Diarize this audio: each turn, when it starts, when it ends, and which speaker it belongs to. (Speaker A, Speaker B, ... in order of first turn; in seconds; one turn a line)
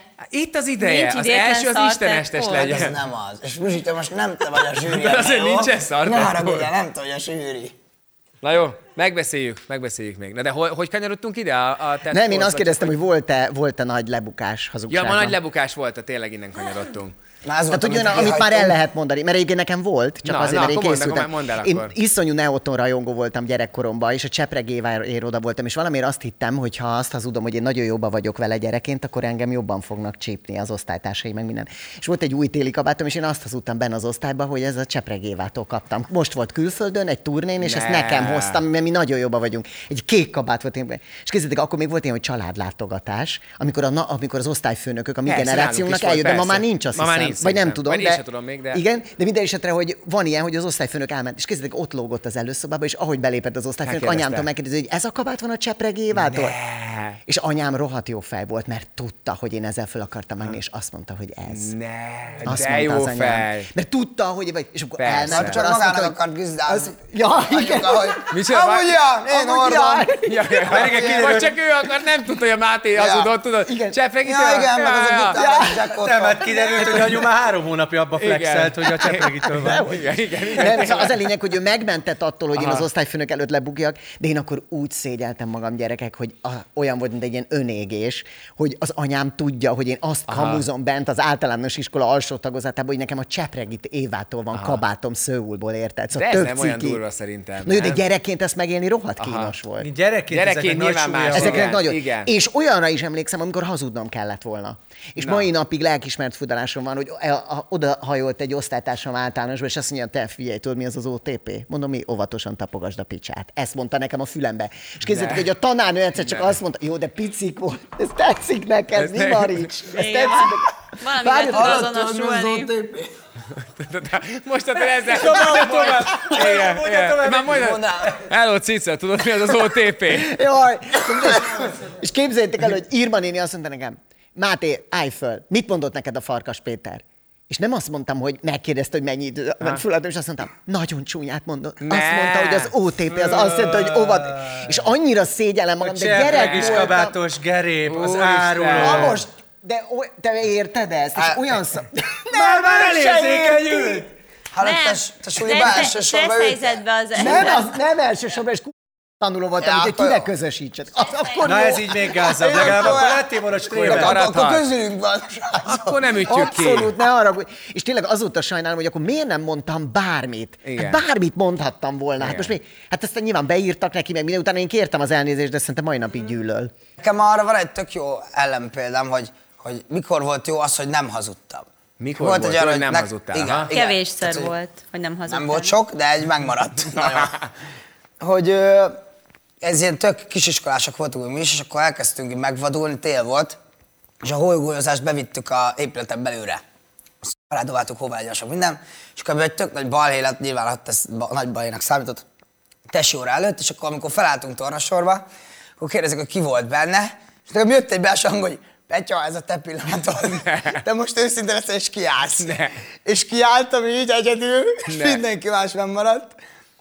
Speaker A: 0.3-3.0
Speaker B: 0.8-2.8
Speaker C: 2.5-7.7
Speaker A: 4.8-6.7
Speaker A: 8.4-12.9
Speaker D: 12.1-15.4
Speaker A: 14.9-17.1
Speaker C: 17.4-18.8
Speaker D: 17.7-56.6
Speaker A: 20.2-21.9
Speaker A: 37.6-38.6
Speaker A: 45.2-48.8
Speaker A: 53.8-54.5
Speaker A: 56.1-57.2
Speaker D: 57.2-61.7
Speaker A: 61.5-63.7
Speaker D: 62.4-68.2
Speaker A: 65.0-65.6
Speaker C: 65.3-70.2
Speaker A: 68.3-69.0
Speaker D: 69.2-71.0
Speaker A: 70.2-75.4
Speaker E: 70.6-71.5
Speaker C: 73.0-73.3
Speaker D: 73.7-73.9
Speaker C: 74.2-77.2
Speaker D: 75.3-75.9
Speaker E: 76.0-79.9
Speaker A: 78.2-81.2
Speaker D: 79.4-97.0
Speaker A: 82.5-82.8
Speaker A: 90.3-90.6
Speaker A: 94.5-94.8
Speaker A: 96.1-98.0
Speaker D: 97.6-99.9
Speaker A: 99.2-99.5
Speaker E: 99.8-101.8
Speaker A: 100.3-102.3
Speaker D: 101.3-121.9
Speaker A: 105.2-105.5
Speaker A: 115.0-115.5
Speaker A: 116.2-116.5
Speaker A: 118.9-119.7
Speaker B: 119.9-122.7
Speaker C: 121.5-123.1
Speaker A: 123.6-130.3
Speaker E: 125.0-127.8
Speaker C: 127.5-128.2
Speaker D: 130.1-147.2
Speaker A: 141.8-142.7
Speaker E: 143.1-144.8
Speaker E: 145.8-149.2
Speaker A: 146.3-146.9
Speaker A: 147.8-149.1
Speaker D: 148.8-152.4
Speaker C: 151.2-151.6
Speaker E: 152.3-154.1
Speaker C: 152.3-157.4
Speaker B: 154.6-157.7
Speaker D: 157.1-162.3
Speaker C: 159.6-160.3
Speaker E: 161.4-164.3
Speaker C: 162.2-166.2
Speaker A: 163.7-164.6
Speaker A: 165.6-166.9
Speaker D: 166.2-176.7
Speaker A: 170.6-171.0
Speaker A: 172.2-172.5
Speaker C: 177.0-181.7
Speaker A: 182.0-183.7
Speaker C: 182.2-184.5
Speaker B: 183.7-185.7
Speaker C: 185.3-187.5
Speaker C: 188.2-189.0
Speaker C: 189.6-193.6
Speaker C: 194.2-196.6
Speaker C: 197.2-202.2
Speaker C: 202.9-205.3
Speaker C: 205.8-216.4
Speaker A: 210.4-210.8
Speaker A: 212.4-212.8
Speaker A: 214.8-215.2